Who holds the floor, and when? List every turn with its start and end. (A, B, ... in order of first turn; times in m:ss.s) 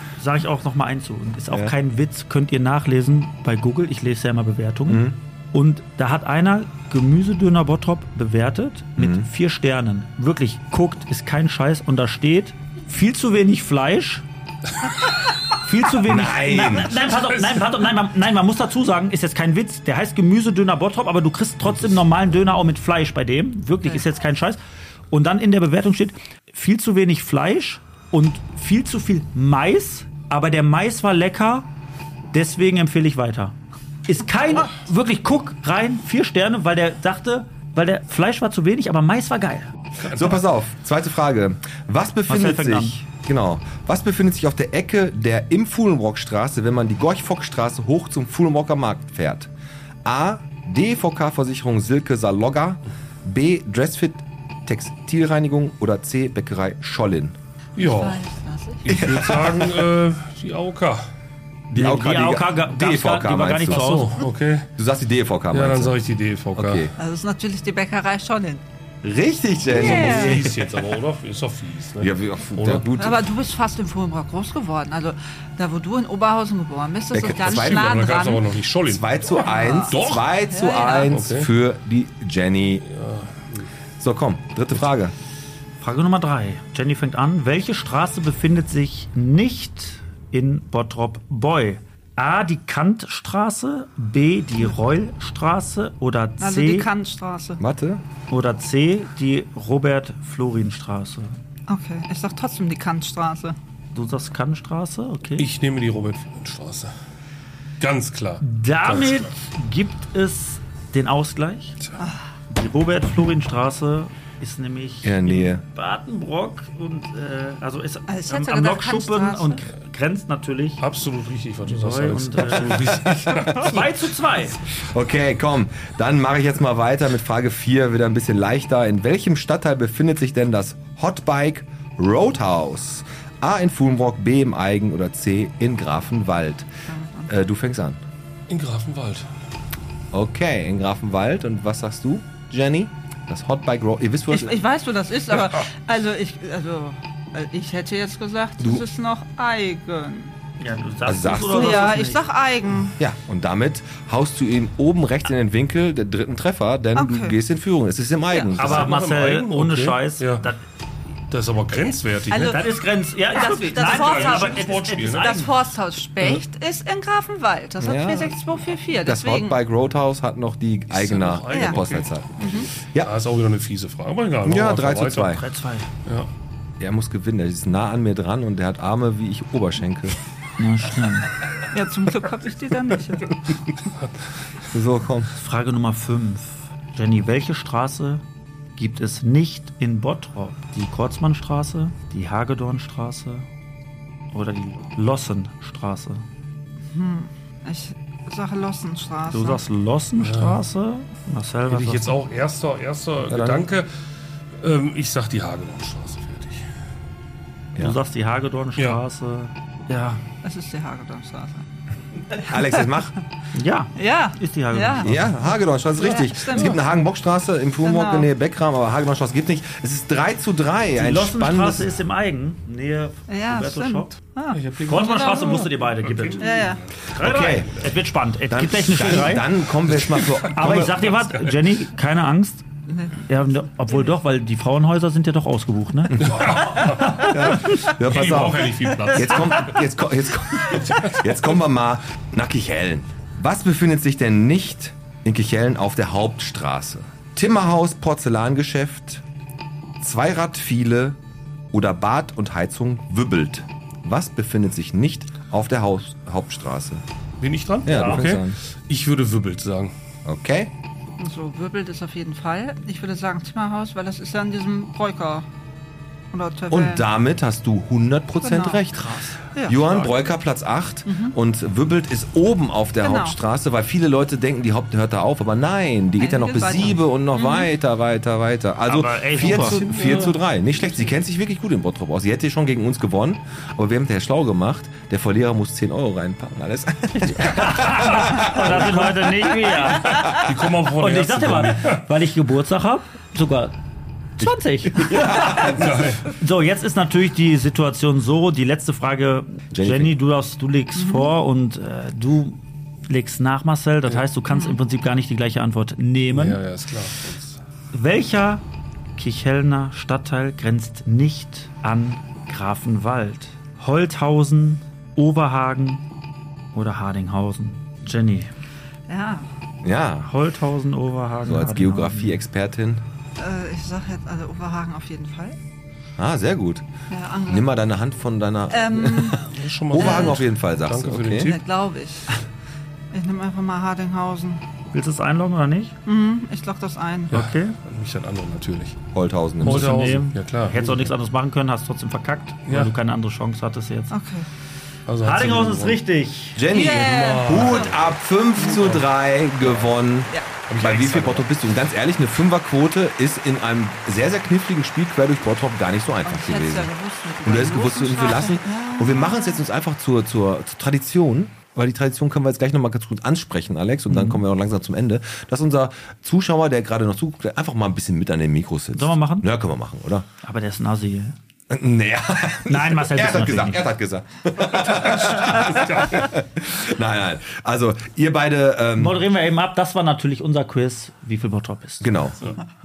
0:00.2-0:14.2 A
0:04.9-0:05.2 B
0:09.0-0:09.3 B
0:15.6-0:24.6 A
0:16.0-0:17.0 B
0:25.1-0:31.7 A
0:32.3-0:33.6 A
0:34.1-0:39.7 A
0:40.0-0:40.4 C
0:40.1-0:49.5 B
0:42.3-0:43.0 A
0:50.0-0:57.4 B
0:57.8-0:58.2 C
0:57.8-0:58.9 D
0:58.8-1:01.1 C
0:58.9-0:59.9 B
1:01.7-1:04.0 B
1:01.7-1:04.2 A
1:03.7-1:04.7 C
1:04.8-1:06.0 B
1:05.5-1:06.9 C
1:06.5-1:06.9 B
1:07.0-1:08.6 D
1:09.0-1:10.8 B
1:09.7-1:12.9 C
1:09.7-1:10.4 D
1:12.0-1:13.2 B
1:13.0-1:18.5 D
1:17.1-1:18.1 B
1:17.3-1:20.3 C
1:18.9-1:22.8 B
1:19.3-1:21.1 D
1:21.1-1:21.5 C
1:22.8-1:23.7 C
1:24.0-1:25.1 B
1:25.8-1:36.9 A
1:36.4-1:37.6 D
1:37.6-1:38.0 B
1:38.3-1:41.4 A
1:41.7-1:43.6 D
1:43.9-1:45.5 A
1:45.4-1:46.9 C
1:47.8-1:49.3 C
1:48.4-1:51.8 A
1:52.5-2:00.8 A
1:55.0-1:55.6 B
1:58.1-1:59.6 D
2:00.8-2:03.8 C
2:01.6-2:04.6 A
2:02.9-2:03.6 B
2:04.8-2:16.7 B
2:16.9-2:17.4 D
2:17.3-2:18.0 B
2:18.5-2:19.3 C
2:20.1-2:24.6 B
2:24.3-2:30.4 D
2:30.6-2:32.2 A
2:31.0-2:32.0 B
2:31.4-2:33.0 D
2:33.0-2:38.9 B
2:37.0-2:37.4 D
2:38.6-2:40.6 A
2:38.6-2:40.5 C
2:41.3-2:42.6 C
2:42.3-2:42.8 D
2:42.4-2:45.5 A
2:43.3-2:49.6 D
2:43.8-2:45.4 C
2:47.8-2:48.4 B
2:49.0-2:53.1 B
2:50.9-2:55.4 C
2:51.5-2:51.8 D
2:52.4-2:52.7 D
2:54.4-2:55.4 B
2:55.3-2:55.9 A
2:56.8-3:00.2 B
3:00.6-3:01.3 A
3:01.7-3:03.3 D
3:04.7-3:05.3 B
3:05.4-3:08.2 A
3:08.8-3:13.5 A
3:14.3-3:16.3 A
3:16.8-3:19.6 D
3:19.3-3:22.2 A
3:20.2-3:20.6 C
3:21.7-3:23.9 C
3:23.3-3:23.7 B
3:24.6-3:26.7 C
3:27.8-3:30.2 A
3:28.8-3:29.0 C
3:30.4-3:31.7 D
3:32.4-3:32.9 D
3:32.5-3:33.1 B
3:33.5-3:35.3 A
3:34.0-3:35.1 D
3:35.0-3:41.9 B
3:36.0-3:36.8 D
3:37.8-3:38.3 D
3:41.0-3:44.2 A
3:43.3-3:44.6 D
3:44.5-3:47.6 C
3:44.7-3:49.5 A
3:45.4-3:45.6 D
3:46.4-3:46.8 D
3:47.2-3:47.8 B
3:48.5-3:51.2 B
3:49.9-3:50.5 C
3:50.4-3:52.7 A
3:52.9-3:53.2 D
3:53.2-3:57.5 A
3:56.1-4:09.2 B
3:56.2-3:59.8 C
4:00.8-4:01.2 C
4:10.0-4:11.2 B
4:11.7-4:17.0 B
4:17.4-4:19.9 C
4:17.8-4:18.6 B
4:20.2-4:20.7 B
4:21.2-4:25.5 D
4:26.3-4:27.1 D
4:26.7-4:49.4 B
4:28.4-4:28.8 D
4:29.0-4:29.4 A
4:29.5-4:29.9 D
4:31.1-4:31.4 D
4:33.0-4:33.4 D
4:36.2-4:37.7 D
4:38.9-4:39.9 A
4:39.4-4:40.4 C
4:47.2-4:50.4 A
4:50.2-4:52.0 C
4:51.0-4:53.8 A
4:54.4-4:55.7 A
4:54.4-4:56.1 B
4:55.6-4:56.3 C
4:56.3-5:06.6 A
4:59.7-5:00.1 B
5:01.0-5:01.3 D
5:04.5-5:04.8 D
5:06.3-5:07.6 C
5:07.9-5:08.6 A
5:09.2-5:16.0 A
5:16.7-5:18.5 A
5:19.1-5:19.5 D
5:19.8-5:20.3 B
5:20.2-5:22.4 A
5:21.4-5:23.0 B
5:23.4-5:25.6 D
5:26.2-5:26.9 B
5:27.1-5:27.7 D
5:27.5-5:31.5 B
5:28.7-5:30.4 D
5:29.5-5:31.6 C
5:31.4-5:32.4 D
5:33.1-5:34.6 D
5:34.9-5:36.0 A
5:36.1-5:37.3 D
5:37.3-5:39.0 C
5:37.3-5:37.8 A
5:39.1-5:40.0 B
5:39.6-5:41.1 C
5:39.6-5:44.1 A
5:42.7-5:42.9 C
5:44.1-5:44.5 D
5:45.1-5:46.0 C
5:45.2-5:46.6 A
5:46.6-5:56.9 B
5:46.7-5:47.9 D
5:47.0-5:49.1 C
5:49.6-5:49.9 C
5:50.7-5:51.5 C
5:56.2-5:59.6 D
5:57.4-6:10.3 B
6:04.1-6:04.4 A
6:09.0-6:09.5 A
6:10.4-6:11.4 A
6:11.7-6:19.2 B
6:12.7-6:13.8 A
6:14.9-6:16.2 C
6:19.0-6:22.2 A
6:22.0-6:22.4 B